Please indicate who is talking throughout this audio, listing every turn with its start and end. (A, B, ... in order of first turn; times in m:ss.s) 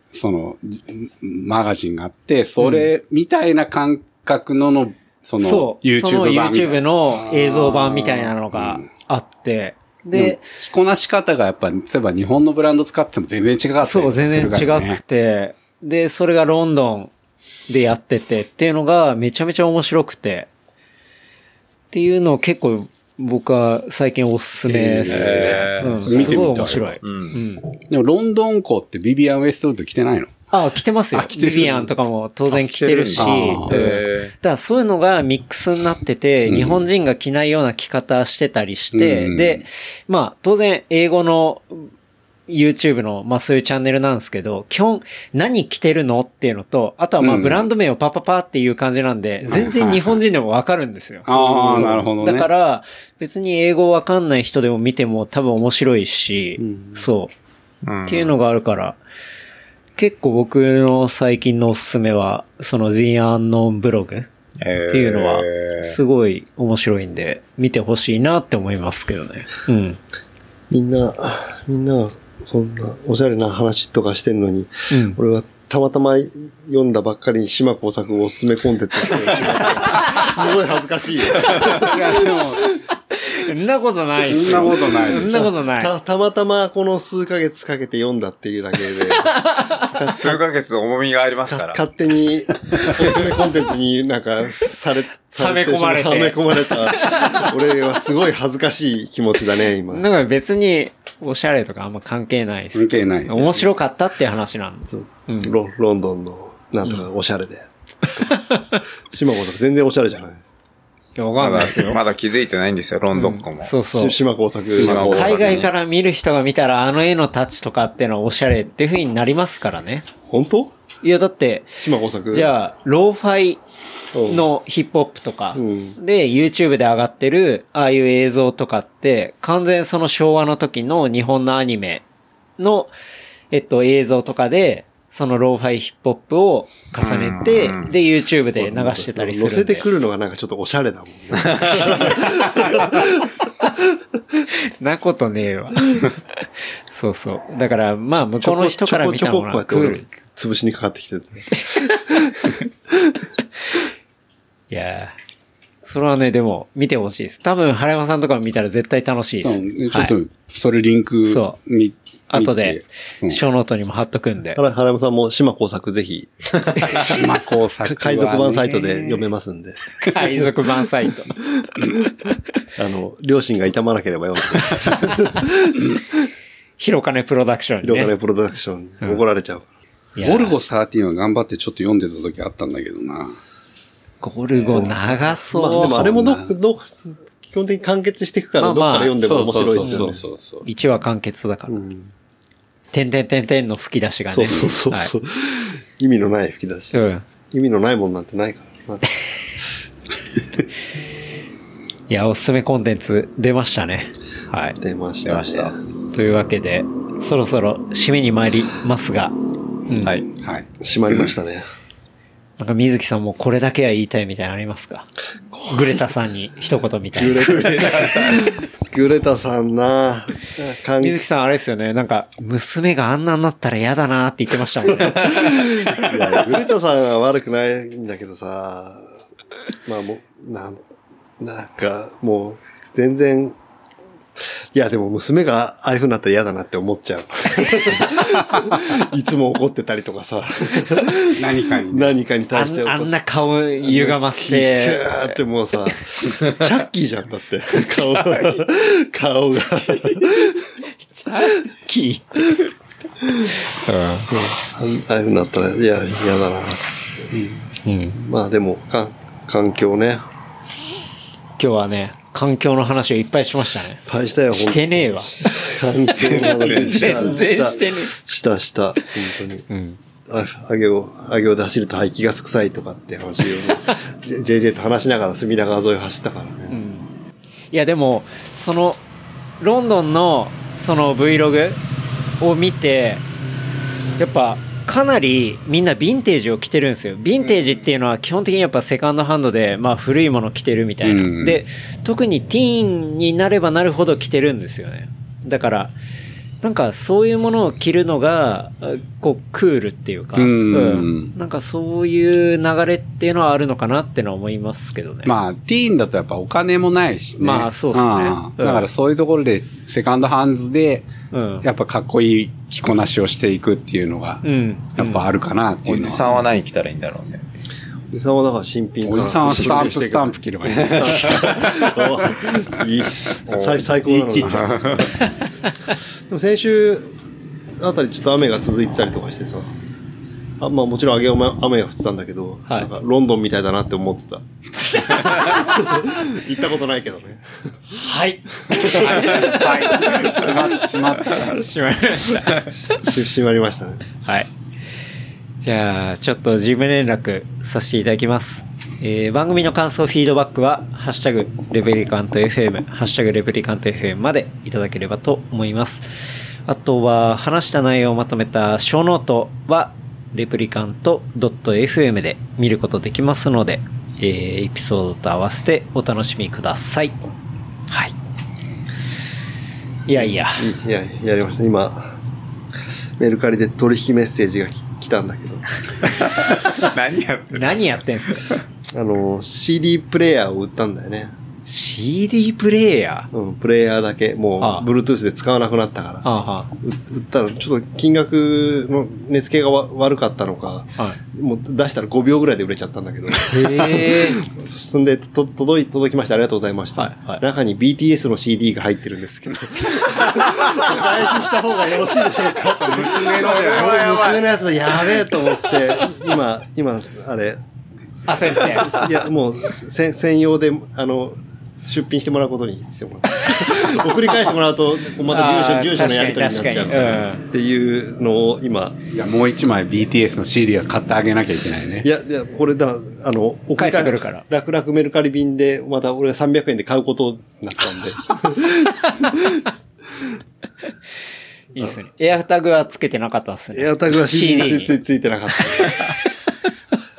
0:00.1-0:08.9 A
0:02.6-0:02.9 B
0:05.4-0:10.4 B
0:10.1-0:15.0 A
0:13.8-0:17.1 B
0:17.7-0:20.5 B
0:21.9-0:27.7 B
0:24.6-0:27.0 A
0:25.1-0:26.3 C
0:27.0-0:27.4 C
0:27.9-0:30.3 A
0:30.5-0:41.9 B
0:31.1-0:31.9 A
0:32.5-0:34.3 C
0:33.2-0:34.0 A
0:36.5-0:36.9 A
0:38.9-0:39.6 A
0:42.5-0:57.3 B
0:47.2-0:47.7 A
0:49.4-0:50.2 A
0:51.2-0:52.5 A
0:51.7-0:52.0 D
0:56.6-0:57.1 D
0:57.8-0:58.3 C
0:58.1-0:59.0 B
1:00.0-1:04.3 B
1:04.6-1:06.0 C
1:04.9-1:10.0 B
1:10.7-1:22.2 D
1:14.9-1:15.2 B
1:21.7-1:22.7 A
1:23.2-1:25.9 B
1:24.3-1:25.5 A
1:24.4-1:24.7 D
1:25.3-1:30.4 D
1:30.1-1:31.8 C
1:31.5-1:40.0 D
1:35.4-1:37.5 B
1:39.9-1:45.5 B
1:42.7-1:43.7 A
1:44.9-1:48.4 D
1:48.2-1:48.8 B
1:49.1-1:50.4 D
1:51.2-1:52.0 B
1:51.4-1:53.7 C
1:53.1-1:54.2 B
1:53.9-1:55.4 D
1:54.8-1:55.7 C
1:54.8-1:55.6 A
1:54.8-2:00.1 B
2:00.3-2:00.7 D
2:01.0-2:01.8 B
2:01.8-2:02.5 D
2:02.3-2:03.6 B
2:04.1-2:04.4 D
2:04.2-2:12.0 B
2:05.5-2:06.0 D
2:12.6-2:12.9 B
2:13.5-2:19.8 B
2:17.0-2:17.9 C
2:18.6-2:23.8 D
2:21.4-2:21.8 C
2:21.8-2:22.2 B
2:24.8-2:26.2 B
2:26.9-2:30.0 B
2:28.4-2:33.2 D
2:31.6-2:32.1 B
2:34.7-2:35.1 B
2:35.8-2:40.1 B
2:39.4-2:43.4 A
2:41.2-2:41.6 B
2:42.3-2:44.6 B
2:44.5-2:47.1 D
2:46.9-2:49.3 A
2:47.8-2:50.5 D
2:50.0-2:51.4 B
2:51.6-2:51.9 D
2:52.8-2:56.0 D
2:54.9-2:55.1 B
2:56.8-2:58.1 B
2:57.8-2:59.6 D
3:00.2-3:00.6 B
3:00.2-3:03.4 A
3:04.2-3:06.1 B
3:04.7-3:05.0 A
3:05.4-3:10.2 D
3:05.7-3:06.5 A
3:08.6-3:09.2 B
3:09.2-3:10.7 A
3:09.8-3:11.8 B
3:11.7-3:12.1 D
3:12.9-3:15.1 B
3:14.3-3:19.1 D
3:16.9-3:17.2 B
3:22.1-3:24.8 B
3:24.8-3:25.8 D
3:25.2-3:25.7 C
3:26.1-3:29.3 B
3:29.9-3:30.2 B
3:30.4-3:30.7 A
3:30.8-3:31.6 D
3:32.6-3:35.1 B
3:35.5-3:35.9 D
3:35.6-3:38.1 B
3:37.1-3:41.2 D
3:41.0-3:45.4 B
3:45.0-3:49.1 D
3:49.8-3:50.8 D
3:51.4-3:53.6 D
3:54.7-4:03.1 D
4:01.3-4:02.1 A
4:02.5-4:05.4 B
4:03.8-4:10.7 D
4:11.2-4:12.7 B
4:13.6-4:14.3 B
4:14.2-4:16.9 D
4:17.3-4:17.6 A
4:17.8-4:18.2 B
4:18.2-4:20.2 D
4:21.6-4:24.0 B
4:24.0-4:29.6 D
4:24.5-4:25.4 B
4:26.2-4:27.2 C
4:26.3-4:28.1 B
4:29.7-4:30.0 B
4:30.3-4:36.8 D
4:36.7-4:37.1 B
4:37.7-4:39.0 B
4:39.6-4:41.8 B
4:42.4-4:43.2 B
4:44.2-4:55.9 B
4:51.0-4:51.6 A
4:56.6-5:05.3 B
5:00.4-5:01.3 A
5:05.2-5:11.1 A
5:07.4-5:08.8 B
5:11.3-5:11.6 B
5:11.6-5:14.4 A
5:14.4-5:15.2 B
5:15.0-5:16.4 A
5:15.8-5:17.4 C
5:18.1-5:25.0 D
5:19.0-5:22.5 A
5:23.5-5:23.8 C
5:24.0-5:24.7 A
5:24.4-5:25.1 C
5:25.2-5:25.4 B
5:26.3-5:27.1 D
5:27.8-5:29.7 D
5:30.6-5:37.4 D
5:37.9-5:43.1 B
5:38.7-5:41.6 A
5:42.9-5:44.0 D
5:44.2-5:44.5 B
5:45.6-5:56.1 B
5:56.6-6:07.2 B
6:10.0-6:10.7 B
6:10.1-6:12.2 D
6:13.2-6:15.6 D
6:16.0-6:17.9 C
6:17.5-6:18.5 B
6:18.9-6:21.3 D
6:21.7-6:23.3 B
6:23.3-6:47.6 D
6:24.6-6:24.9 B
6:26.2-6:26.7 B
6:33.4-6:34.4 B
6:36.9-6:37.4 B
6:42.7-6:44.5 A
6:48.2-6:49.0 B
6:48.3-6:59.0 D
6:55.3-6:57.4 B
6:59.1-7:02.1 A
7:02.0-7:09.7 D
7:03.8-7:04.4 B
7:11.7-7:14.9 B
7:13.7-7:16.0 D
7:15.5-7:16.1 B